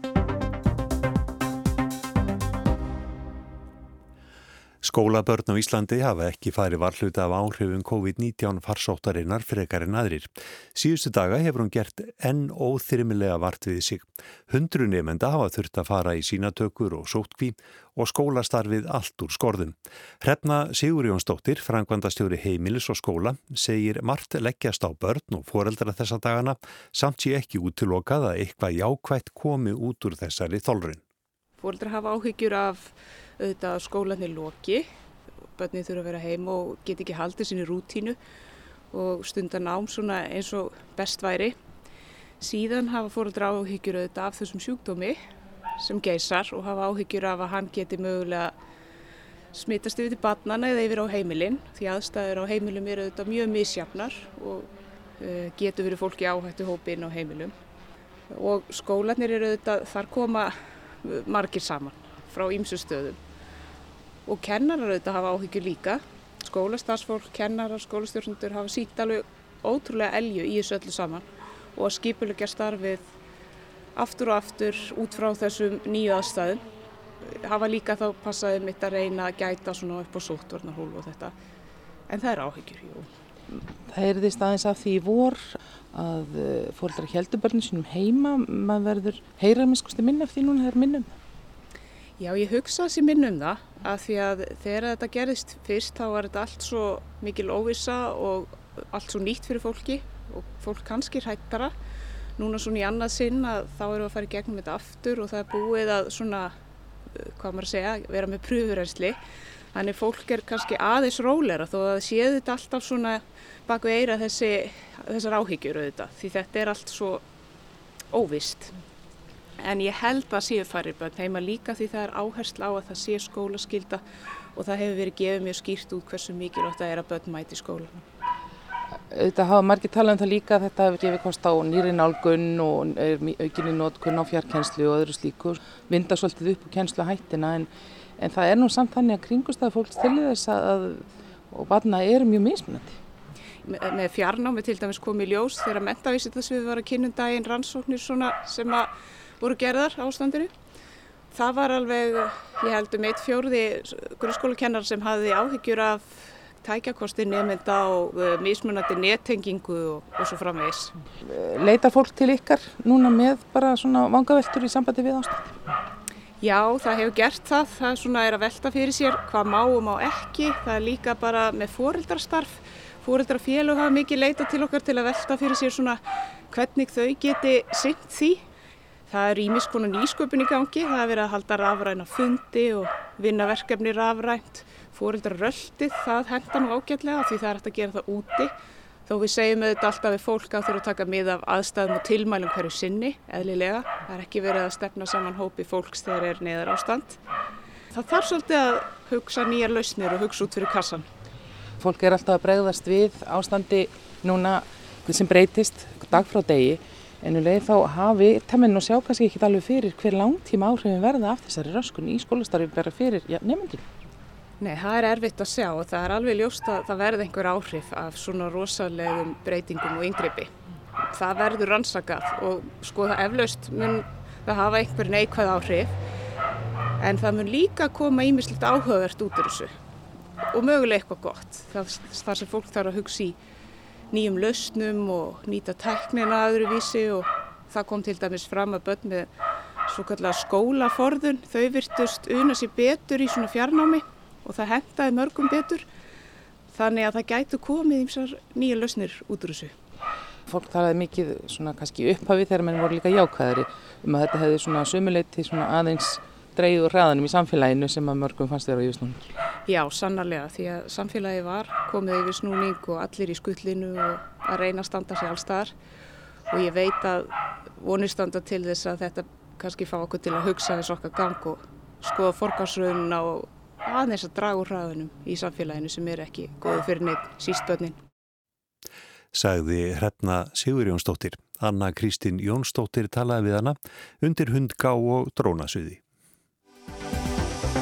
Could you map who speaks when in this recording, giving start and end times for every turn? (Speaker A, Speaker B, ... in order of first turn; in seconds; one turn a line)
Speaker A: 4.8-31.0
Speaker B: 31.6-34.9
Speaker B: 35.6-38.2
Speaker B: 38.9-41.5
Speaker B: 42.4-45.2
Speaker B: 45.8-48.5
Speaker B: 49.5-54.7
Speaker B: 55.2-57.5
Speaker B: 58.3-63.2
Speaker B: 64.3-73.1
Speaker B: 74.0-76.6
Speaker B: 77.2-81.3
Speaker B: 82.1-83.1
Speaker C: 83.5-91.1
Speaker B: 92.2-101.7
Speaker B: 102.4-106.5
Speaker B: 107.1-109.2
Speaker B: 109.7-117.2
Speaker B: 118.1-118.8
Speaker B: 119.6-124.0
Speaker B: 124.5-128.0
Speaker C: 129.1-143.0
Speaker B: 143.6-150.5
Speaker B: 151.3-160.9
Speaker C: 161.2-165.6
Speaker B: 166.4-178.4
Speaker B: 179.1-188.5
Speaker B: 189.1-197.2
Speaker B: 197.9-201.1
Speaker C: 201.8-213.8
Speaker B: 214.6-220.5
Speaker B: 221.0-226.0
Speaker B: 227.0-229.7
Speaker B: 230.5-233.4
Speaker B: 234.1-239.3
Speaker B: 239.9-245.8
Speaker B: 246.7-249.7
Speaker C: 250.4-259.3
Speaker B: 259.7-265.7
Speaker B: 266.5-278.0
Speaker A: 279.3-286.0